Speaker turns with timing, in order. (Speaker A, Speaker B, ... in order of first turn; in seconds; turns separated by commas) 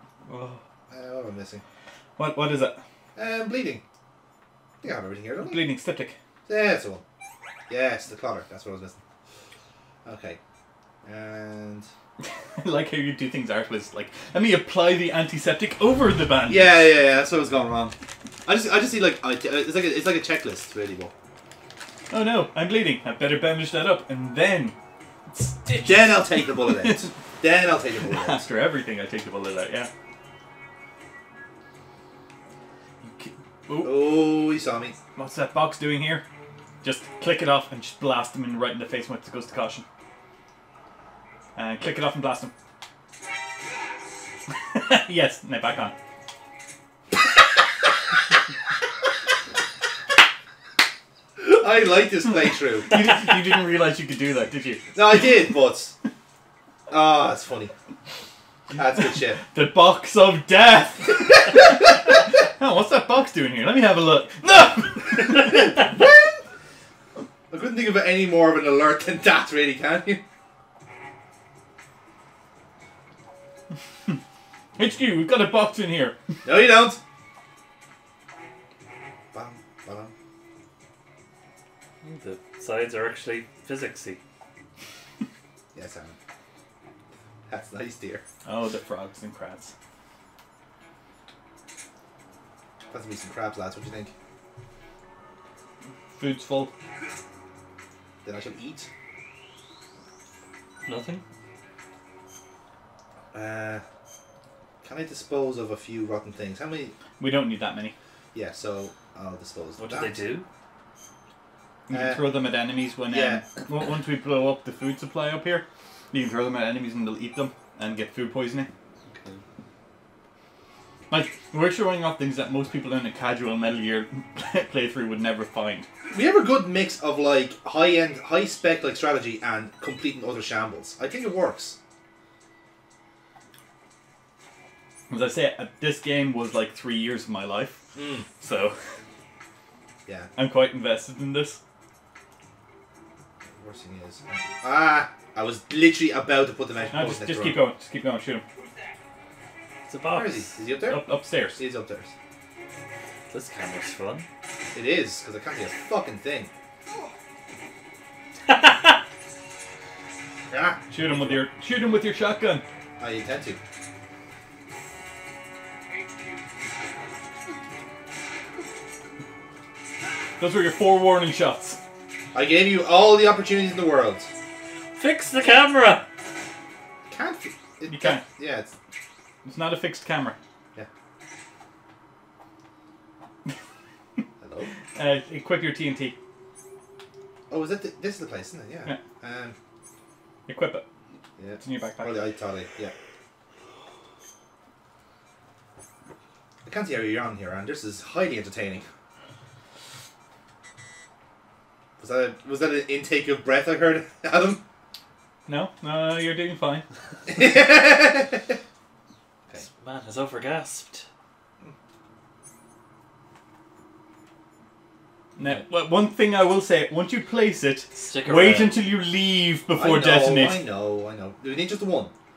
Speaker A: 0.2-0.6, Speaker B: 0.9-1.6, Speaker A: 2.2-2.8, Speaker B: 3.1-3.8, Speaker B: 4.8-5.7, Speaker A: 5.4-6.1, Speaker B: 6.5-7.0, Speaker B: 7.7-9.0, Speaker B: 10.0-10.4, Speaker B: 11.0-11.9, Speaker A: 12.2-16.9, Speaker B: 16.5-17.9, Speaker B: 18.4-21.1, Speaker A: 22.1-24.7, Speaker A: 25.3-27.1, Speaker B: 25.8-28.5, Speaker A: 28.0-29.9, Speaker A: 33.0-34.3, Speaker B: 33.8-35.0, Speaker A: 35.1-36.2, Speaker A: 36.8-39.8, Speaker A: 41.5-42.5, Speaker A: 44.5-45.9, Speaker B: 51.4-53.1, Speaker A: 52.8-55.5, Speaker B: 54.9-55.9, Speaker B: 56.9-57.7, Speaker B: 58.7-59.4, Speaker A: 59.3-65.8, Speaker B: 65.3-66.4, Speaker B: 67.5-70.2, Speaker A: 74.8-76.2, Speaker B: 76.4-77.0, Speaker B: 79.3-80.1, Speaker C: 82.0-84.2, Speaker B: 85.7-86.2, Speaker B: 87.5-88.2, Speaker A: 88.4-89.7, Speaker B: 92.9-94.1, Speaker A: 96.2-96.7, Speaker B: 98.2-98.9, Speaker C: 100.8-101.2, Speaker B: 103.3-103.8, Speaker B: 104.8-106.9, Speaker A: 107.2-107.9, Speaker B: 108.3-110.2, Speaker C: 109.8-110.5, Speaker A: 111.9-118.7, Speaker B: 111.9-112.4, Speaker B: 113.1-113.6, Speaker C: 119.1-119.4, Speaker A: 121.1-125.9, Speaker B: 126.1-131.8, Speaker A: 135.1-138.8, Speaker B: 137.9-138.2, Speaker A: 140.3-141.6, Speaker B: 143.5-147.6, Speaker A: 146.9-148.4, Speaker C: 149.9-150.6, Speaker B: 150.1-152.1, Speaker A: 150.9-151.6, Speaker C: 153.3-154.3, Speaker B: 154.7-156.5, Speaker B: 160.5-160.9, Speaker A: 160.9-162.6, Speaker B: 163.0-163.6, Speaker A: 170.4-171.8, Speaker B: 172.3-174.3, Speaker C: 174.9-176.1, Speaker B: 177.1-178.8, Speaker A: 177.9-178.2, Speaker A: 179.4-180.4, Speaker B: 184.4-184.7, Speaker A: 184.9-186.2, Speaker B: 187.5-189.6, Speaker A: 190.5-190.8, Speaker B: 191.4-192.9, Speaker A: 191.6-192.2, Speaker B: 196.6-198.8, Speaker B: 202.0-204.6, Speaker A: 205.5-206.8, Speaker B: 207.3-208.6, Speaker C: 209.6-211.1, Speaker A: 215.4-220.7, Speaker C: 218.1-218.9, Speaker B: 219.7-222.1